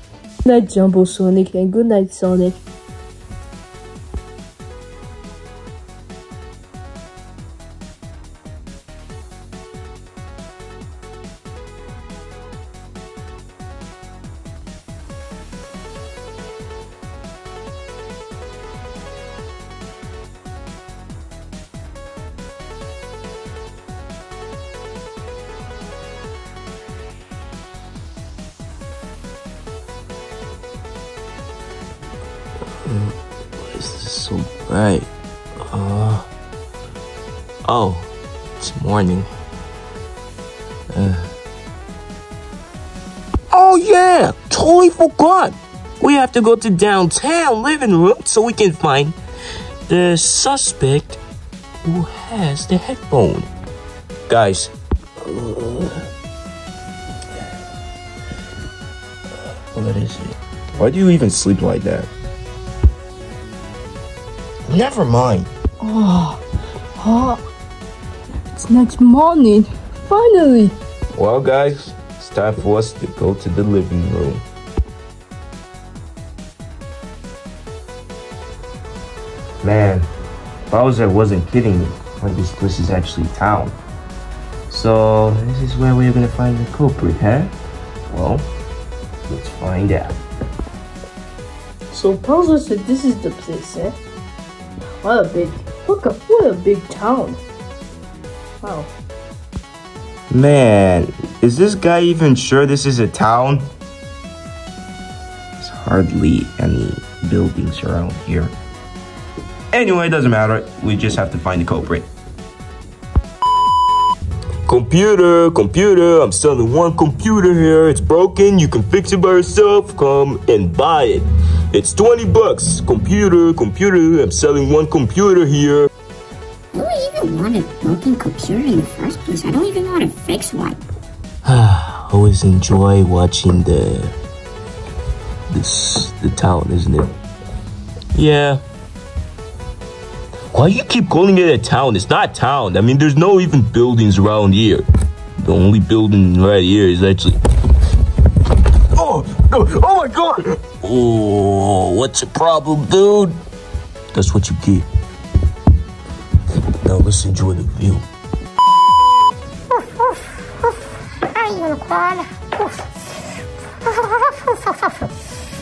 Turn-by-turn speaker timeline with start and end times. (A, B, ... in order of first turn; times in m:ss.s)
0:00.5-0:02.6 A
0:32.8-0:35.1 B
0:35.6-0:36.3 B
0:37.6-0:39.3 B
0:40.9-0:41.3 B
0:43.5-0:49.2 B
0:49.9-0:51.2 B
0:51.8-0:53.5 B
0:54.3-0:56.1 B
0:59.4-1:02.1 B
1:04.7-1:05.5 B
1:05.8-1:06.4 A
1:07.0-1:07.4 A
1:08.5-1:10.8 A
1:11.1-1:14.4 B
1:19.6-1:20.1 B
1:20.7-1:23.8 B
1:24.7-1:27.5 B
1:28.1-1:28.5 B
1:29.2-1:30.2 B
1:31.9-1:34.0 A
1:35.0-1:37.4 A
1:38.6-1:38.9 A
1:40.3-1:43.7 B
1:45.6-1:48.6 B
1:49.7-1:52.1 B
1:54.7-2:05.9 B
2:06.7-2:10.8 C
2:11.4-2:14.2 B
2:15.5-2:17.2 B
2:18.1-2:18.6 B
2:20.5-2:24.8 B
2:25.4-2:27.4 B
2:28.9-2:33.4 B
2:34.1-2:34.9 B
2:36.8-2:38.1 B
2:39.7-2:40.2 C
2:41.2-2:42.8 C
2:43.8-2:45.1 C